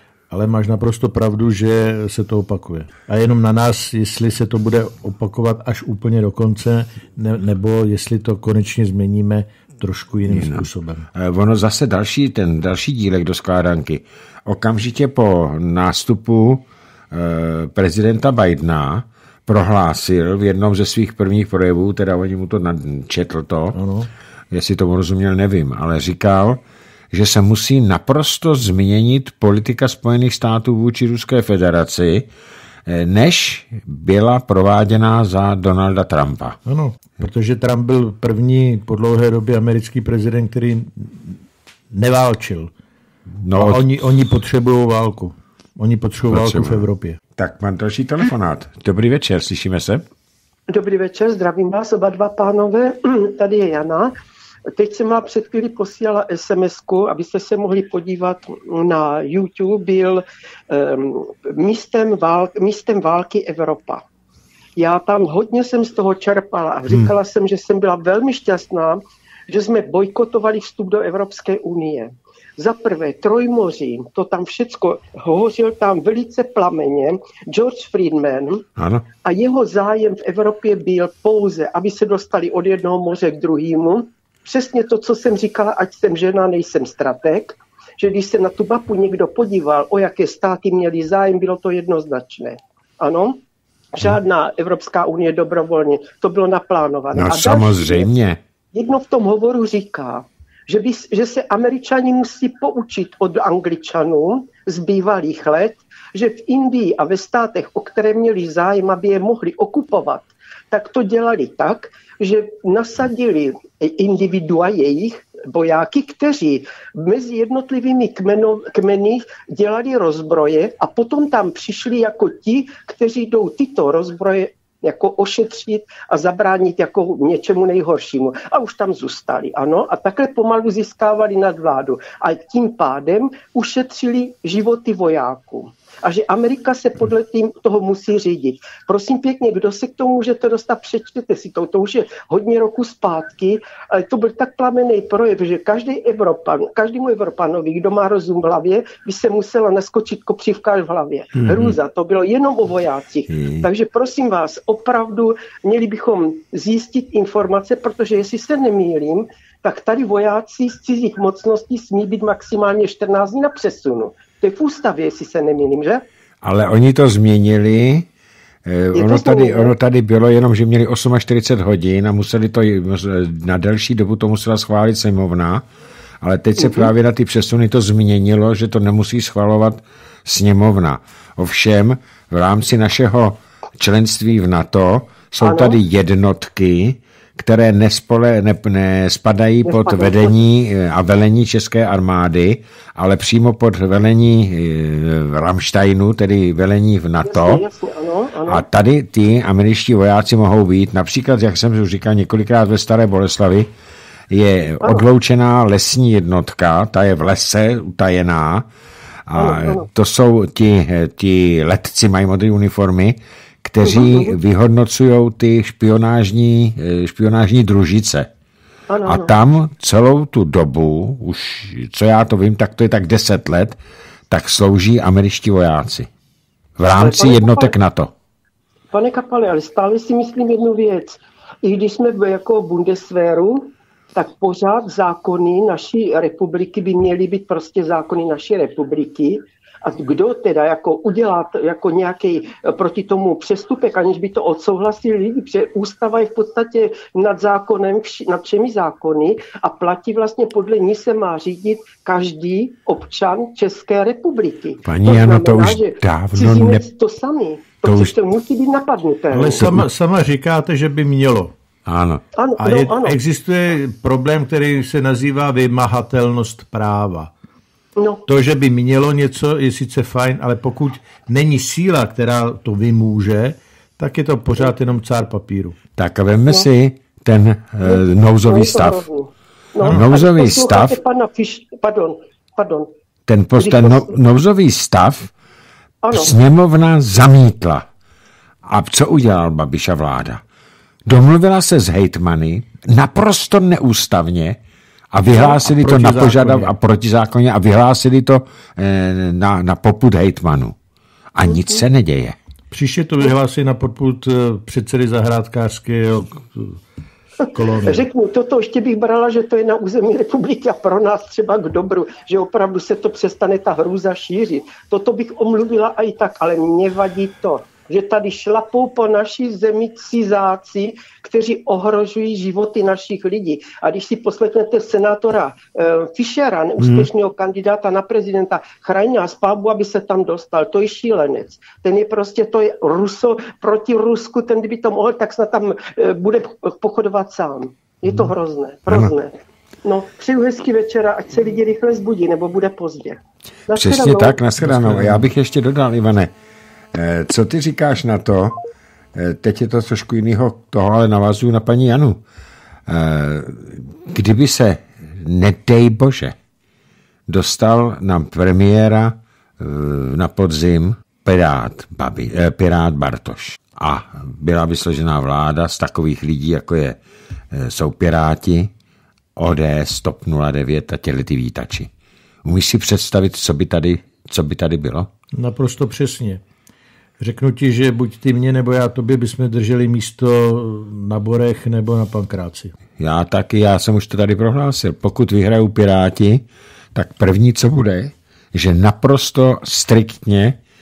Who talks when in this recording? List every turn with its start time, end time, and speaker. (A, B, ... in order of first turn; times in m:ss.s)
0:00.3-0:11.1 A
0:10.3-0:23.8 B
0:23.7-0:24.1 A
0:24.5-0:26.6 B
0:27.1-0:32.3 B
0:32.9-0:36.6 B
0:36.6-0:41.4 A
0:41.9-0:42.7 A
0:43.4-0:44.0 B
0:43.6-0:47.2 A
0:46.3-0:46.8 B
0:47.4-0:50.0 B
0:50.7-0:54.1 C
0:54.7-1:04.0 C
1:04.8-1:18.6 C
1:18.8-1:19.0 B
1:19.2-1:33.4 C
1:33.9-1:38.1 C
1:37.1-1:38.4 B
1:38.7-2:46.0 C
2:31.4-2:31.8 B
2:33.3-2:33.7 B
2:46.4-2:48.1 B
2:48.6-2:55.6 B
2:48.9-2:49.7 C
2:56.2-3:17.6 B
2:56.6-2:56.9 C
3:05.4-3:05.8 C
3:09.6-3:10.3 C
3:17.2-3:18.6 C
3:18.5-3:23.7 B
3:24.3-3:28.7 B
3:29.3-3:38.3 B
3:29.4-3:29.8 C
3:33.8-3:34.4 C
3:38.9-3:39.3 C
3:39.0-3:43.8 B
3:44.3-3:46.1 B
3:46.8-3:48.1 B
3:47.0-3:47.7 C
3:48.9-4:19.6 C
4:14.8-4:16.8 B
4:17.8-4:18.2 B
4:19.3-4:21.5 A
4:19.6-4:19.8 B
4:21.8-4:22.2 B
4:22.4-4:23.2 C
4:22.6-4:27.3 A
4:28.0-4:28.2 C
4:28.2-4:35.8 A
4:36.0-4:39.0 B
4:37.8-4:42.9 C
4:39.8-4:41.0 B
4:43.3-4:45.3 B
4:43.6-4:44.1 C
4:46.0-4:46.3 C
4:46.1-4:47.8 B
4:48.6-4:50.4 B
4:51.0-4:54.6 B
4:55.1-5:00.7 B
4:55.4-4:56.7 A
5:01.3-5:02.3 B
5:01.4-5:01.8 C
5:02.7-5:06.8 A
5:07.5-5:08.1 A
5:07.7-5:44.4 C
5:26.8-5:27.1 B
5:43.7-5:46.3 B
5:44.6-5:45.3 A
5:46.9-5:48.6 B
5:49.1-5:52.2 B
5:52.9-5:56.4 B
5:57.3-6:07.0 B
6:07.5-6:08.7 B
6:09.4-6:11.9 B
6:12.4-6:15.1 B
6:15.3-6:16.4 A
6:17.2-6:22.7 A
6:23.0-6:30.6 B